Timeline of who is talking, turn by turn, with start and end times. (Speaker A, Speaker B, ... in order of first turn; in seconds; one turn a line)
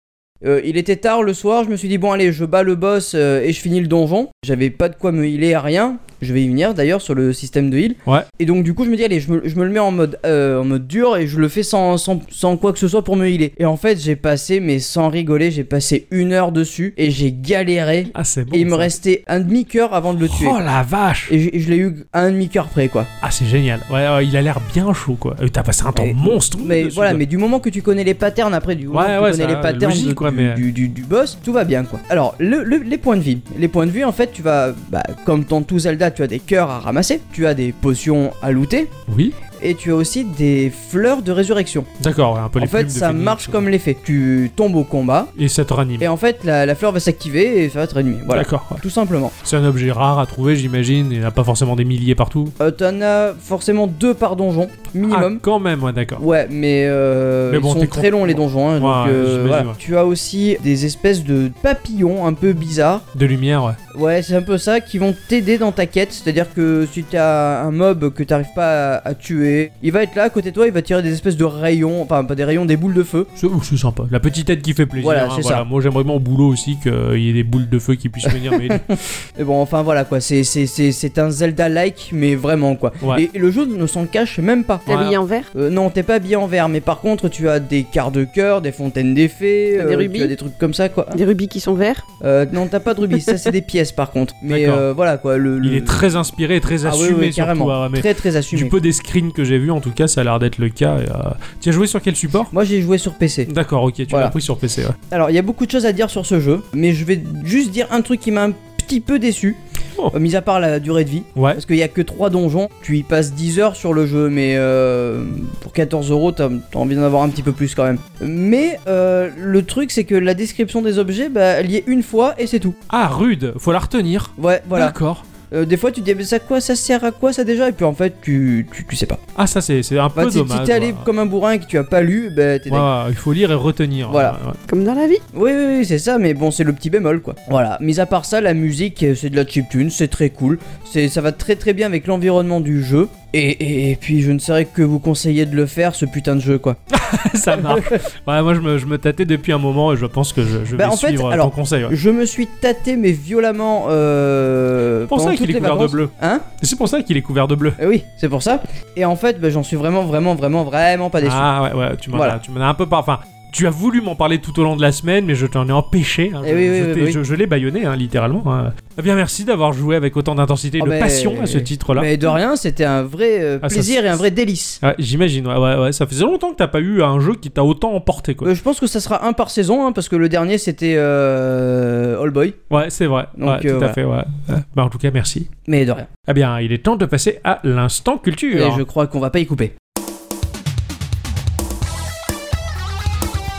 Speaker A: 0.4-20.6
Speaker B: 18.1-18.9
Speaker B: 20.2-21.3
Speaker A: 21.3-23.1
Speaker B: 23.2-27.2
Speaker A: 25.9-38.9
Speaker B: 28.9-30.6
Speaker B: 39.1-39.4
Speaker A: 39.6-41.9
Speaker B: 42.0-43.7
Speaker A: 42.6-45.3
Speaker B: 45.4-46.1
Speaker A: 46.0-49.4
Speaker B: 48.3-48.8
Speaker B: 49.4-52.5
Speaker A: 52.6-55.4
Speaker B: 55.0-56.2
Speaker A: 56.2-63.1
Speaker B: 57.5-59.8
Speaker B: 63.1-63.8
Speaker A: 63.9-73.3
Speaker B: 73.4-78.9
Speaker A: 75.0-75.7
Speaker A: 78.2-84.9
Speaker B: 84.9-85.2
Speaker C: 84.9-85.5
Speaker A: 85.5-91.2
Speaker C: 89.8-90.3
Speaker C: 91.1-92.0
Speaker A: 92.2-96.1
Speaker B: 94.5-94.9
Speaker B: 95.6-102.5
Speaker A: 96.8-98.8
Speaker A: 102.5-103.5
Speaker B: 103.5-105.0
Speaker A: 104.1-104.3
Speaker A: 105.1-109.6
Speaker A: 110.1-122.8
Speaker B: 111.4-111.6
Speaker B: 122.9-125.2
Speaker A: 124.4-125.0
Speaker A: 125.5-129.2
Speaker B: 129.4-131.1
Speaker A: 130.2-132.9
Speaker B: 132.7-134.6
Speaker A: 134.1-134.4
Speaker C: 134.7-135.2
Speaker A: 135.3-146.8
Speaker B: 146.9-151.9
Speaker A: 147.6-148.0
Speaker A: 150.8-156.4
Speaker B: 155.1-157.8
Speaker A: 157.8-161.5
Speaker B: 161.2-172.1
Speaker A: 162.1-162.4
Speaker A: 166.4-167.2
Speaker A: 170.8-174.8
Speaker B: 173.6-174.2
Speaker B: 174.8-178.5
Speaker A: 178.4-182.6
Speaker B: 182.7-185.5
Speaker A: 183.4-184.0
Speaker A: 185.7-186.1
Speaker B: 186.3-188.8
Speaker A: 188.5-189.7